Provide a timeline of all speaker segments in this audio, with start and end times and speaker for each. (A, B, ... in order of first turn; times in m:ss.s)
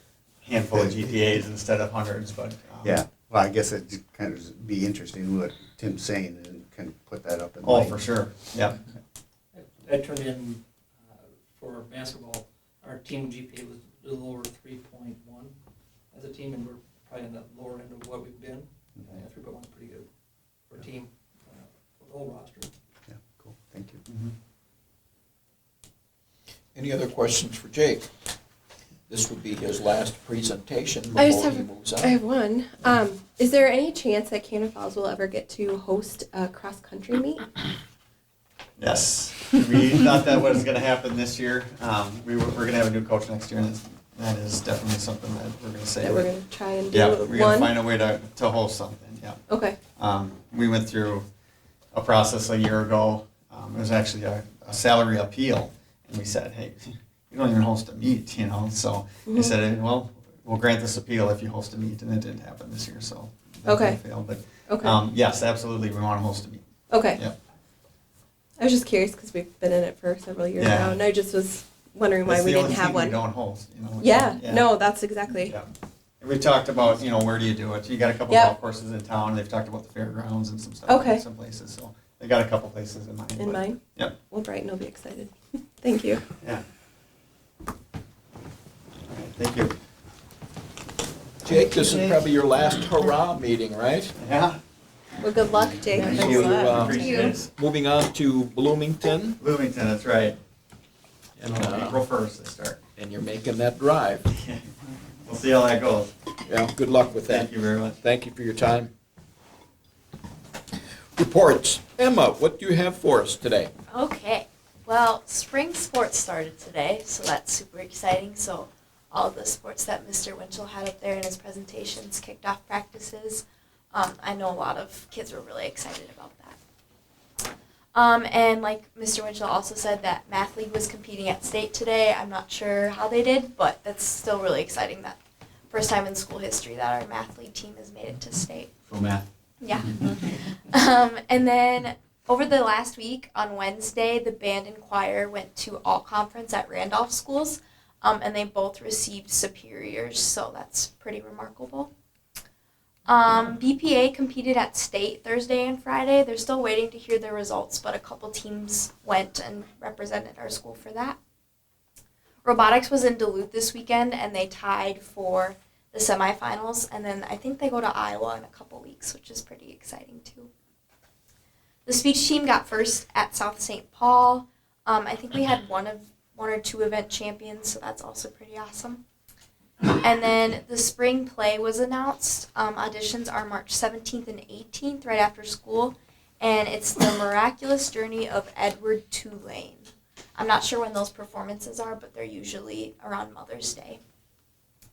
0:00.4-0:03.0 A
0:00.7-0:01.0 B
0:02.8-0:08.0 B
0:07.6-0:08.8 A
0:09.5-0:15.6 C
0:16.1-0:20.1 C
0:20.7-0:22.7 C
0:23.1-0:24.1 B
0:26.8-0:28.1 D
0:29.1-0:32.2 D
0:31.2-0:37.4 E
0:38.8-0:46.3 A
0:46.0-0:47.7 E
0:46.9-0:49.4 A
0:49.5-0:49.8 E
0:50.0-0:51.3 A
0:51.9-1:07.4 A
0:59.3-0:59.6 E
1:03.7-1:04.0 E
1:04.7-1:05.0 E
1:06.9-1:07.2 E
1:08.6-1:13.2 E
1:10.6-1:11.0 A
1:12.3-1:14.6 A
1:14.0-1:15.6 E
1:16.2-1:24.2 A
1:18.3-1:18.5 E
1:20.9-1:21.2 E
1:23.4-1:26.2 E
1:29.1-1:29.7 A
1:31.4-1:34.1 D
1:31.5-1:32.2 A
1:34.2-1:34.6 A
1:35.2-1:37.2 E
1:35.9-1:37.5 A
1:36.0-1:39.4 D
1:36.9-1:37.3 F
1:39.4-1:40.4 A
1:41.4-1:42.0 D
1:41.4-1:42.8 A
1:43.0-1:44.3 D
1:44.3-1:44.7 A
1:45.2-1:46.1 A
1:46.5-1:48.9 D
1:47.3-1:48.0 A
1:51.2-1:53.7 D
1:53.9-2:06.6 F
2:07.9-2:15.2 F
2:15.7-2:18.7 F
2:18.9-2:19.2 A
2:19.6-2:31.9 F
2:33.1-2:41.2 F
2:42.4-2:50.5 F
2:51.9-2:59.0 F
2:59.9-3:14.0 F